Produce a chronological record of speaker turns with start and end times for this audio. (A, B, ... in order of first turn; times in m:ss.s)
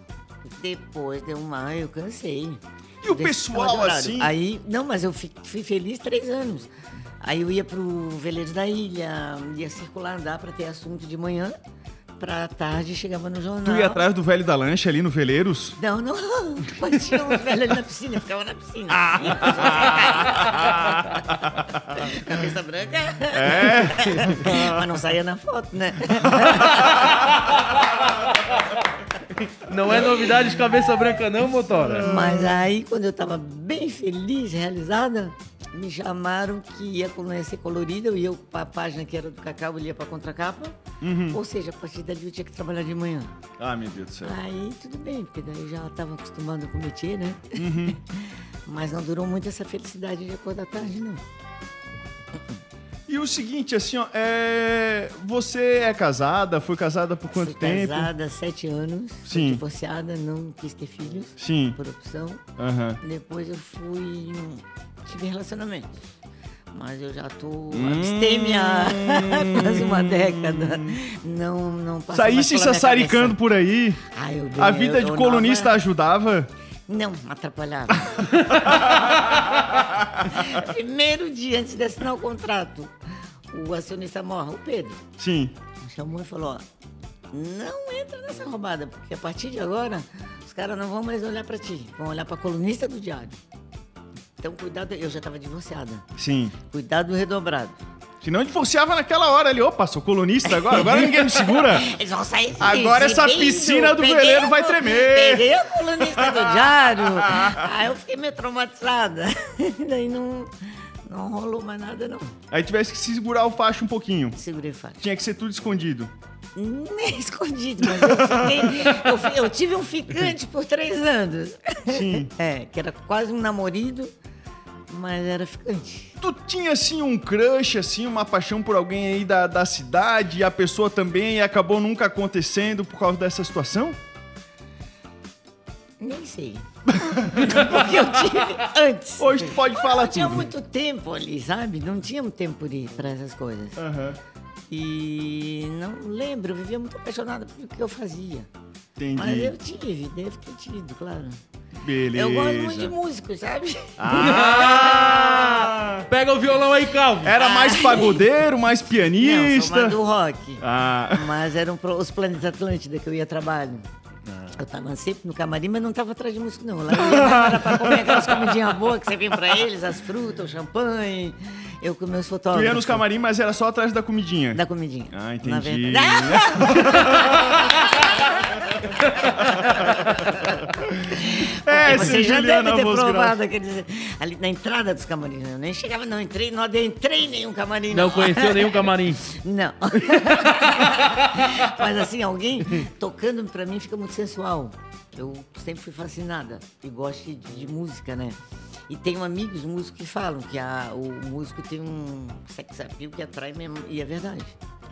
0:00.4-0:06.7 A
0:03.0-0:04.3 B
0:07.2-0:11.6 A
0:12.2-0:14.0 A
0:13.6-0:15.8 B
0:15.8-0:27.3 A
0:18.9-0:21.8 B
0:23.3-0:24.8 B
0:29.5-0:32.1 C
0:31.9-0:32.6 B
0:32.0-0:43.4 A
0:41.0-0:41.4 B
0:43.6-0:44.4 B
0:44.2-0:51.2 A
0:47.6-0:48.0 B
0:53.1-0:58.1 B
0:57.3-1:02.4 A
0:59.3-0:59.6 B
1:01.4-1:01.8 B
1:02.6-1:03.0 B
1:03.0-1:06.0 A
1:06.7-1:13.4 A
1:07.7-1:10.9 B
1:12.1-1:14.0 B
1:14.1-1:15.8 A
1:14.6-1:16.5 B
1:16.9-1:18.7 A
1:18.5-1:20.2 B
1:20.2-1:22.9 A
1:23.5-1:25.0 A
1:25.2-1:25.6 B
1:25.8-1:26.6 A
1:27.3-1:33.4 A
1:34.4-1:36.0 A
1:36.2-1:36.6 B
1:36.6-1:37.8 A
1:38.2-1:41.9 B
1:40.7-1:52.4 A
1:42.6-1:45.5 B
1:46.1-1:47.6 B
1:52.5-1:54.4 B
1:54.4-1:55.0 A
1:55.0-1:56.1 B
1:56.6-2:04.1 A
1:58.0-1:59.0 B
2:01.9-2:02.3 B
2:04.9-2:06.2 A
2:06.2-2:14.0 B
2:16.0-2:23.8 A
2:16.9-2:18.0 B
2:19.2-2:20.5 B
2:23.8-2:24.2 B
2:24.7-2:28.5 A
2:29.0-2:29.5 B
2:29.2-2:31.4 A
2:31.8-2:33.0 B
2:32.1-2:35.1 A
2:34.0-2:36.1 B
2:34.2-2:37.4 C
2:37.2-2:40.0 B
2:37.4-2:38.3 A
2:39.2-2:43.9 A
2:40.6-2:41.3 B
2:44.5-2:53.0 A
2:46.9-2:48.4 B
2:52.5-2:54.6 B
2:54.5-3:24.6 A
2:55.1-2:57.5 B
3:01.0-3:03.4 B
3:07.9-3:09.2 C